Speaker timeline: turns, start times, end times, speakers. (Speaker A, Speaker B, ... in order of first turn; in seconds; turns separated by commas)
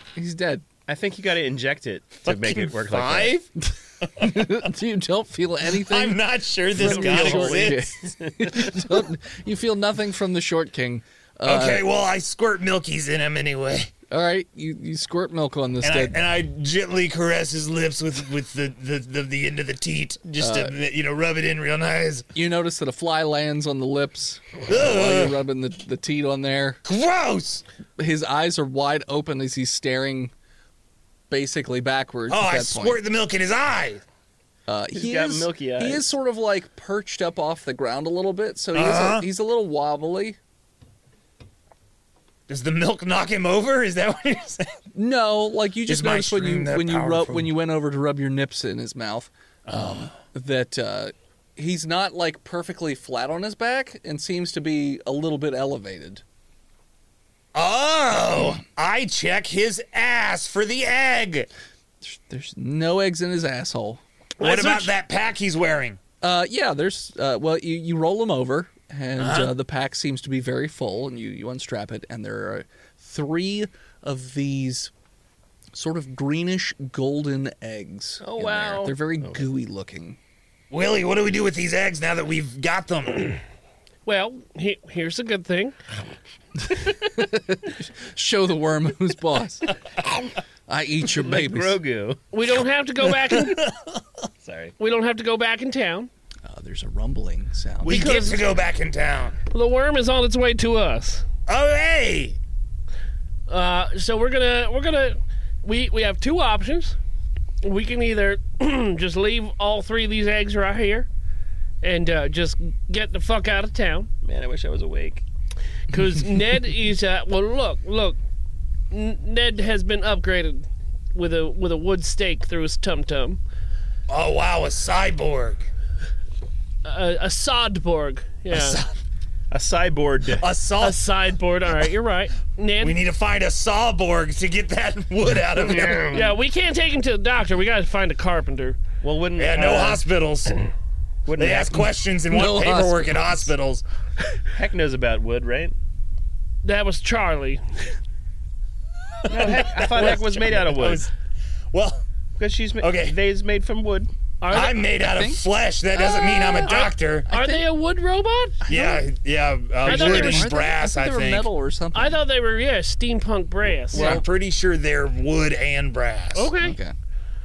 Speaker A: 0.2-0.7, Speaker B: 0.9-3.4, Speaker C: 2.2-3.5, Speaker A: 3.6-6.2, Speaker C: 4.0-4.7, Speaker C: 5.8-7.8, Speaker A: 6.7-11.9, Speaker B: 6.8-8.7, Speaker C: 11.4-13.9, Speaker A: 14.1-16.2, Speaker C: 15.8-22.3, Speaker A: 20.4-20.8, Speaker A: 22.4-26.8, Speaker C: 24.7-25.4, Speaker C: 26.9-27.6, Speaker A: 28.0-30.3, Speaker A: 31.3-33.0, Speaker C: 32.3-34.0, Speaker A: 34.7-40.4, Speaker B: 34.9-36.1, Speaker C: 38.7-39.3, Speaker C: 42.5-44.7, Speaker A: 44.9-56.2, Speaker C: 45.9-47.5, Speaker C: 49.7-50.1, Speaker C: 57.5-61.5, Speaker A: 62.0-64.0, Speaker D: 64.4-64.9, Speaker C: 64.4-66.0, Speaker A: 66.2-74.9, Speaker C: 69.2-69.5, Speaker A: 75.7-80.2, Speaker B: 78.2-79.5, Speaker C: 80.7-83.4, Speaker D: 84.1-85.8, Speaker A: 86.7-89.7, Speaker A: 90.7-91.8, Speaker B: 91.1-92.2, Speaker D: 92.3-93.6, Speaker C: 93.3-94.0, Speaker B: 94.4-94.8, Speaker D: 94.8-96.1, Speaker A: 96.5-98.2, Speaker C: 97.8-99.4, Speaker D: 97.9-98.4, Speaker D: 99.5-101.2, Speaker C: 101.5-102.4, Speaker D: 103.5-107.0, Speaker D: 107.6-111.1, Speaker D: 111.8-114.1, Speaker B: 114.2-115.2, Speaker D: 115.9-118.2, Speaker D: 118.9-123.4, Speaker C: 124.1-125.7, Speaker D: 126.8-128.8, Speaker C: 128.5-128.9, Speaker B: 129.5-130.4, Speaker C: 130.4-131.0, Speaker D: 130.8-133.0, Speaker C: 132.8-136.3, Speaker B: 135.6-136.2, Speaker D: 136.1-138.8, Speaker B: 139.0-140.0, Speaker C: 139.4-140.7, Speaker B: 141.3-141.9, Speaker C: 141.4-143.8, Speaker A: 142.3-143.5, Speaker B: 144.5-145.8, Speaker D: 146.6-147.9, Speaker B: 149.3-151.1, Speaker C: 149.3-151.1, Speaker C: 151.7-152.0, Speaker B: 152.4-154.1, Speaker C: 152.8-153.2, Speaker D: 154.4-154.8, Speaker C: 154.5-157.3, Speaker A: 155.0-155.4, Speaker D: 156.0-158.6, Speaker A: 156.1-157.7, Speaker A: 158.6-159.1, Speaker C: 158.7-161.5, Speaker A: 159.8-162.2, Speaker D: 159.8-160.5, Speaker D: 161.9-164.2, Speaker A: 163.9-164.2, Speaker C: 163.9-166.5, Speaker D: 166.3-166.8, Speaker A: 166.6-167.0